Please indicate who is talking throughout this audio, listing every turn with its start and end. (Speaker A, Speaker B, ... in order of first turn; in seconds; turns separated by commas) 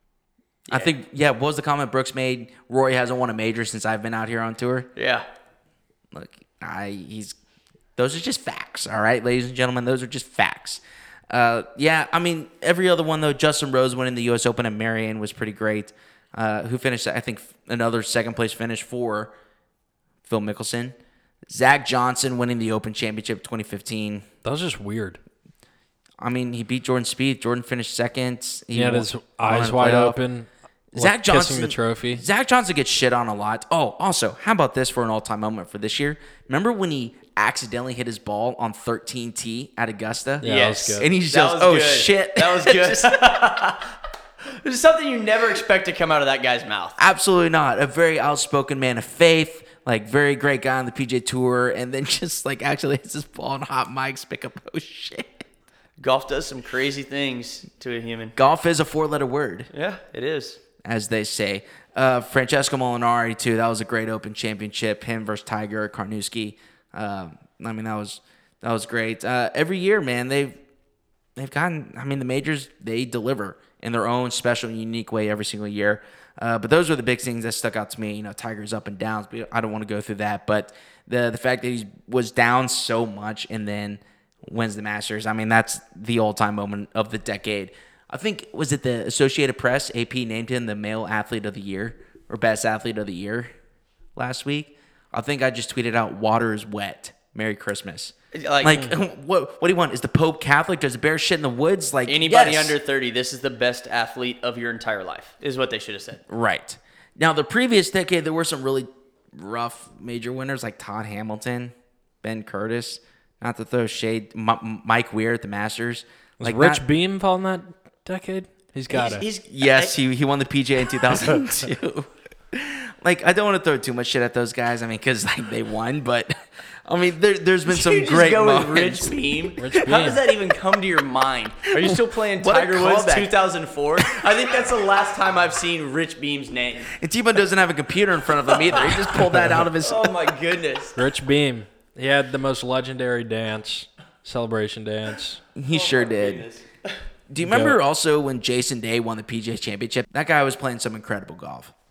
Speaker A: 0.7-0.9, Speaker B: 0.7-4.9, Speaker A: 5.0-5.2, Speaker B: 6.1-7.3, Speaker B: 8.0-19.3, Speaker B: 20.2-20.9, Speaker B: 21.5-24.2, Speaker C: 24.4-25.2, Speaker B: 26.2-30.2, Speaker C: 28.7-32.2, Speaker B: 30.9-43.6, Speaker C: 40.4-41.1, Speaker A: 40.4-43.9, Speaker A: 44.5-47.0, Speaker B: 47.0-55.4, Speaker A: 56.0-58.3, Speaker B: 58.4-59.7, Speaker A: 59.7-60.6, Speaker B: 60.8-70.6, Speaker B: 71.3-93.5, Speaker B: 94.2-102.8, Speaker A: 98.3-98.9, Speaker A: 102.1-106.2, Speaker B: 106.3-116.8, Speaker C: 116.4-119.2, Speaker A: 118.9-119.9, Speaker B: 119.5-126.3, Speaker B: 126.8-129.2, Speaker A: 127.7-137.0, Speaker C: 129.6-130.2, Speaker B: 131.7-133.3, Speaker B: 134.0-134.5, Speaker B: 136.9-140.3, Speaker A: 138.5-141.0, Speaker C: 139.3-139.6, Speaker C: 140.9-145.4, Speaker B: 145.6-146.5, Speaker A: 145.7-146.9, Speaker B: 147.3-151.7, Speaker C: 147.4-147.8